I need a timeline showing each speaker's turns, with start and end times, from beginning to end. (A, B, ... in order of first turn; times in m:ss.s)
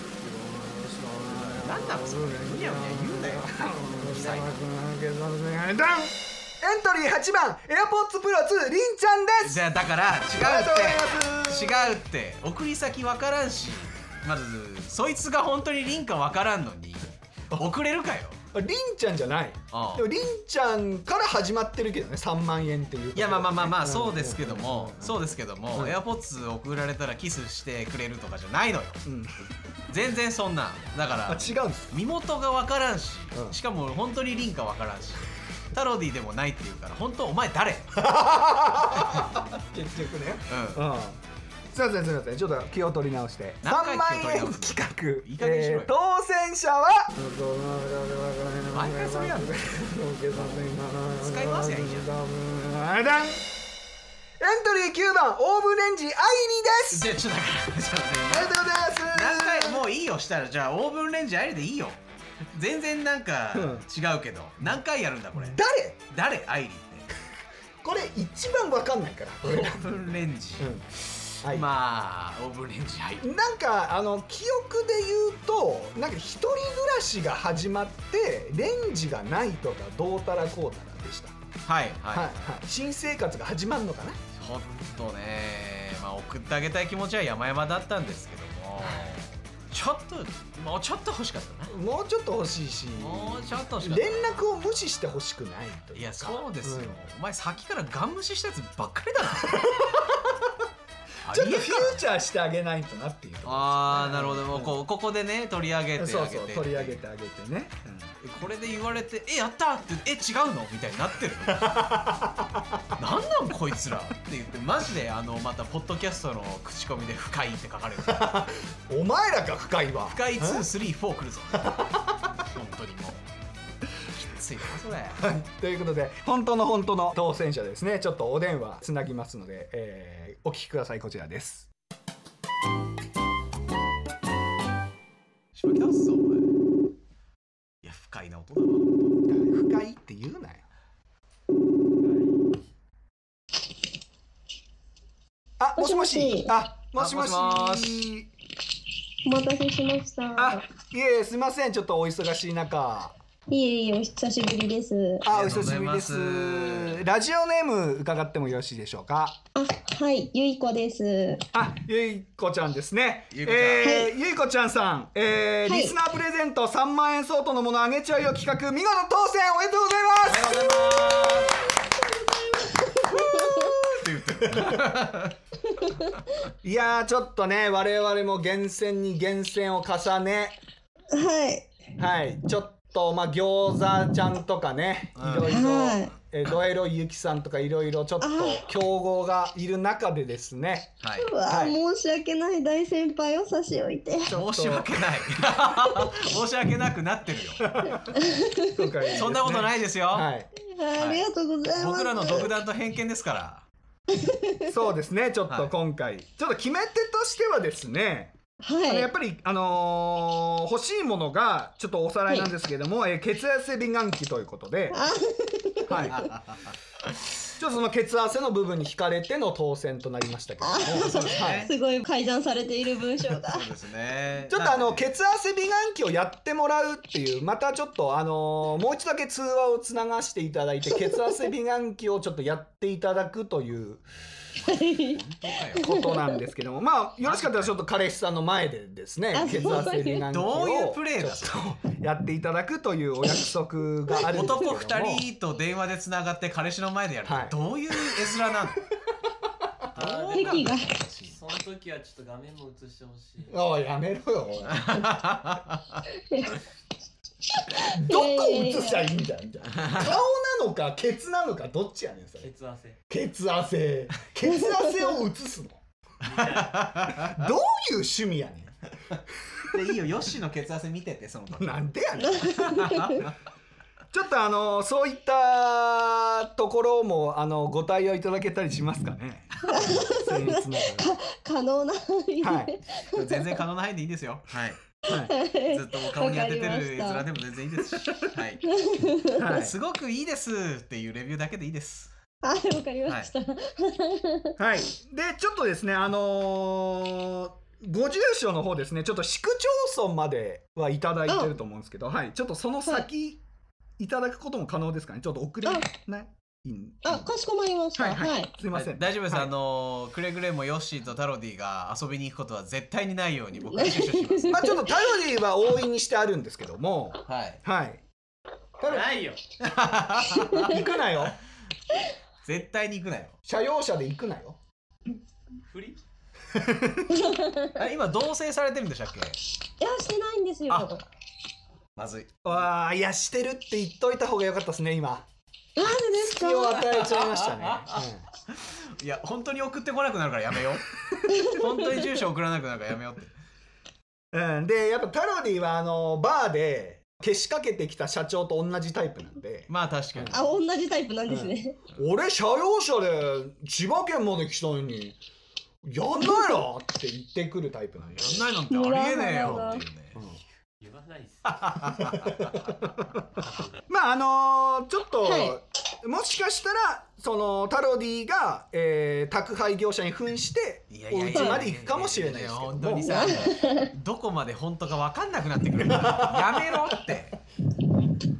0:00.2-0:01.7 A
0:01.2-0:04.6 B
0:03.2-0:09.6 A
0:09.4-0:18.4 B
0:10.3-0:12.0 A
0:18.5-0:26.0 A
0:19.7-0:20.1 B
0:23.1-0:29.0 B
0:29.0-0:29.4 A
0:29.9-0:38.1 B
0:31.2-0:32.0 A
0:33.3-0:33.6 A
0:38.0-0:53.5 A
0:38.9-0:39.3 B
0:40.5-0:40.8 B
0:43.6-0:45.9 B
0:48.7-0:49.7 B
0:50.3-0:52.1 B
0:54.4-0:57.1 A
0:56.9-1:02.0 B
0:58.3-0:59.8 A
1:02.5-1:05.6 B
1:03.5-1:03.8 A
1:05.3-1:06.0 A
1:06.1-1:07.1 B
1:07.8-1:10.0 A
1:09.4-1:13.2 B
1:10.6-1:10.9 A
1:11.4-1:11.7 A
1:13.2-1:21.4 A
1:21.6-1:22.4 B
1:22.1-1:24.2 A
1:24.4-1:31.7 B
1:31.7-1:37.0 A
1:33.0-1:34.5 B
1:35.9-1:39.9 B
1:39.4-1:40.5 A
1:41.2-1:42.0 B
1:41.3-1:44.8 A
1:43.4-1:47.0 B
1:46.0-1:48.1 A
1:48.2-1:52.1 B
1:51.5-1:52.8 A
1:53.0-1:58.5 B
1:58.0-2:00.7 A
2:00.0-2:01.8 B
2:01.6-2:02.2 A
2:02.4-2:03.2 B
2:04.0-2:05.3 B
2:05.2-2:11.7 A
2:15.5-2:16.5 B
2:17.8-2:19.1 B
2:19.3-2:20.6 A
2:22.0-2:22.6 C
2:25.6-2:28.3 A
2:25.8-2:26.5 D
2:26.9-2:28.0 B
2:29.2-2:30.6 D
2:30.4-2:33.1 A
2:33.5-2:35.2 D
2:35.2-2:39.4 A
2:35.2-2:37.0 B
2:39.5-2:41.4 D
2:41.5-2:50.9 A
2:43.3-2:44.0 B
2:43.8-2:44.1 D
2:45.6-2:45.9 D
2:50.2-2:51.7 B
2:52.7-2:53.7 D
2:53.1-2:55.4 B
2:53.1-2:53.4 A
2:54.4-2:54.8 A
2:55.8-2:56.1 D
2:56.6-3:00.6 A
3:01.1-3:01.7 D
3:02.0-3:10.9 A
3:05.2-3:05.5 B
3:05.4-3:06.1 D
3:08.2-3:08.6 D
3:11.0-3:11.8 B
3:11.2-3:14.3 D
3:14.3-3:15.0 A
3:14.3-3:18.0 B
3:17.6-3:20.5 A
3:18.1-3:18.8 D
3:19.1-3:20.3 B
3:20.6-3:22.5 D
3:21.0-3:23.6 B
3:24.1-3:24.7 D
3:24.7-3:35.0 A
3:28.6-3:29.1 D
3:34.9-3:36.2 D
3:35.9-3:36.2 A
3:36.0-3:37.1 B
3:37.6-3:41.7 A
3:40.6-3:43.6 D
3:40.9-3:41.7 B
3:43.3-3:45.0 B
3:44.5-3:54.0 A
3:54.6-3:56.0 B
3:54.6-3:56.4 D
3:55.8-4:05.2 A
3:57.2-3:57.8 B
3:59.3-4:00.2 D
3:59.5-4:01.6 B
4:04.2-4:08.8 B
4:07.2-4:08.2 A
4:09.9-4:10.7 C
4:10.0-4:11.4 B
4:10.3-4:10.9 D
4:11.3-4:13.6 C
4:13.5-4:15.1 A
4:14.6-4:16.0 B
4:16.1-4:16.6 D
4:17.6-4:19.1 D
4:17.9-4:22.5 A
4:19.7-4:20.2 B
4:22.4-4:23.0 C
4:23.1-4:25.8 A
4:24.5-4:25.1 D
4:26.2-4:26.8 C
4:26.4-4:27.5 B
4:27.1-4:28.7 A
4:29.6-4:31.8 B
4:31.6-4:32.8 A
4:32.2-4:33.2 D
4:32.6-4:33.3 B
4:34.1-4:41.1 A
4:39.6-4:43.5 D
4:42.4-4:42.7 A
4:43.1-4:44.8 B
4:45.1-4:45.3 A
4:45.1-4:47.2 D
4:45.6-4:48.6 B
4:48.7-4:49.4 D
4:49.4-4:49.8 A
4:49.4-4:52.1 B
4:52.4-4:54.6 D
4:54.6-5:03.4 A
5:01.3-5:01.5 D
5:04.0-5:07.3 A
5:07.0-5:08.5 D
5:08.0-5:09.5 A
5:08.7-5:14.8 B
5:13.7-5:14.9 D
5:14.4-5:18.0 A
5:17.3-5:17.6 B
5:18.8-5:19.1 A
5:18.8-5:19.4 C
5:19.6-5:20.8 B
5:20.6-5:21.4 A
5:22.4-5:23.3 B
5:23.4-5:24.6 A
5:25.6-5:26.0 C
5:26.5-5:27.2 A
5:27.1-5:27.8 D
5:27.7-5:29.4 B
5:29.8-5:31.0 D
5:32.0-5:32.5 B
5:32.4-5:35.2 A
5:35.8-5:36.8 D
5:36.0-5:38.2 A
5:36.8-5:43.3 B
5:41.3-5:41.7 D
5:44.3-5:50.4 A
5:49.7-5:50.4 B
5:50.3-5:51.8 D
5:51.3-5:55.2 A
5:55.8-5:58.4 A
5:56.2-5:56.6 D
5:58.1-6:00.2 B
5:58.7-5:59.8 D
6:00.8-6:01.9 C
6:01.5-6:02.7 B
6:01.9-6:03.2 A
6:03.9-6:13.4 A
6:05.2-6:05.6 D
6:10.9-6:17.4 B
6:11.3-6:11.6 D
6:13.0-6:13.9 D
6:15.9-6:16.9 A